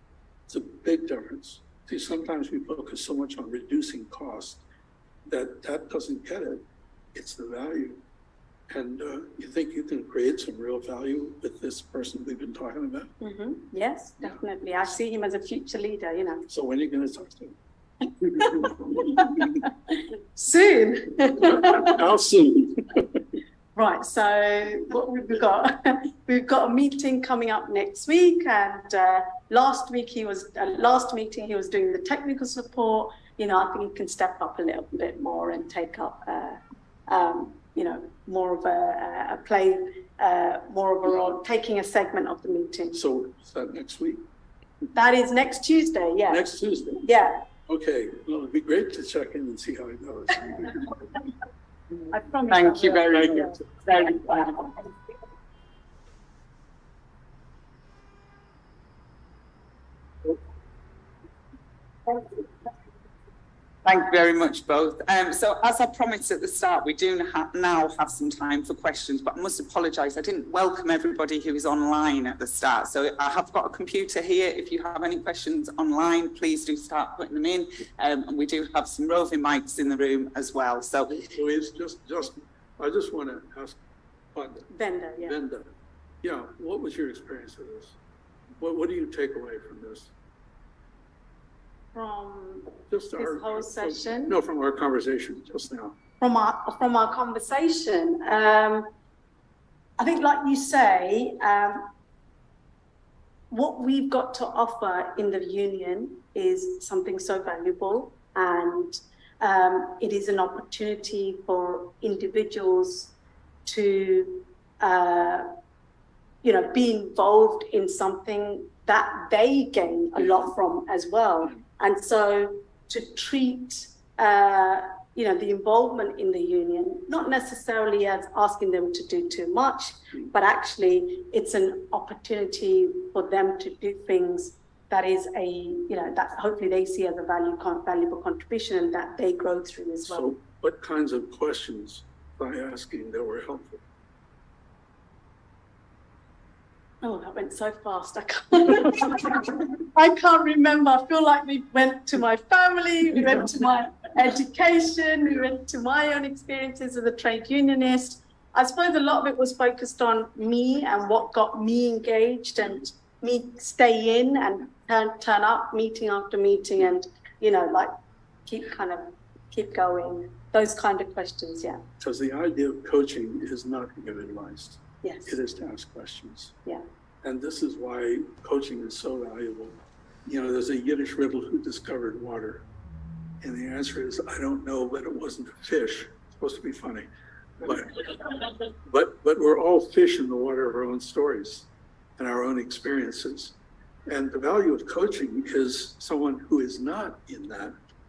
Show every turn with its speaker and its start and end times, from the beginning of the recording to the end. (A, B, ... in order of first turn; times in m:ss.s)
0:00.5-0:04.6 A
0:05.3-0:06.6 A
0:07.1-0:08.0 A
0:08.7-0:13.1 A
0:13.2-0:16.4 B
0:16.5-0:17.6 A
0:18.4-0:19.6 B
0:18.4-0:19.6 A
0:20.4-0:22.0 B
0:21.5-0:23.0 A
0:23.7-0:43.0 B
0:42.9-0:44.2 A
0:44.9-0:47.4 B
0:46.3-0:47.0 A
0:47.7-0:50.7 A
0:52.1-0:54.3 B
0:52.5-0:54.6 C
1:03.8-1:21.2 C
1:21.2-1:23.8 A
1:24.3-1:24.6 A
1:24.7-1:25.4 B
1:25.2-1:25.7 A
1:26.2-1:28.0 A
1:28.6-1:30.1 A
1:31.9-1:34.4 B
1:32.9-1:36.0 A
1:36.2-1:38.9 B
1:40.0-1:41.9 B
1:43.5-1:53.1 B
1:53.6-1:55.5 B
1:56.4-2:20.3 B
2:00.2-2:00.5 A
2:20.0-2:23.8 A
2:27.0-2:47.9 B
2:48.4-2:51.8 B
2:52.0-2:56.6 A
2:55.0-2:55.4 B
2:57.2-3:02.6 A
3:03.4-3:07.1 A
3:07.6-3:17.7 A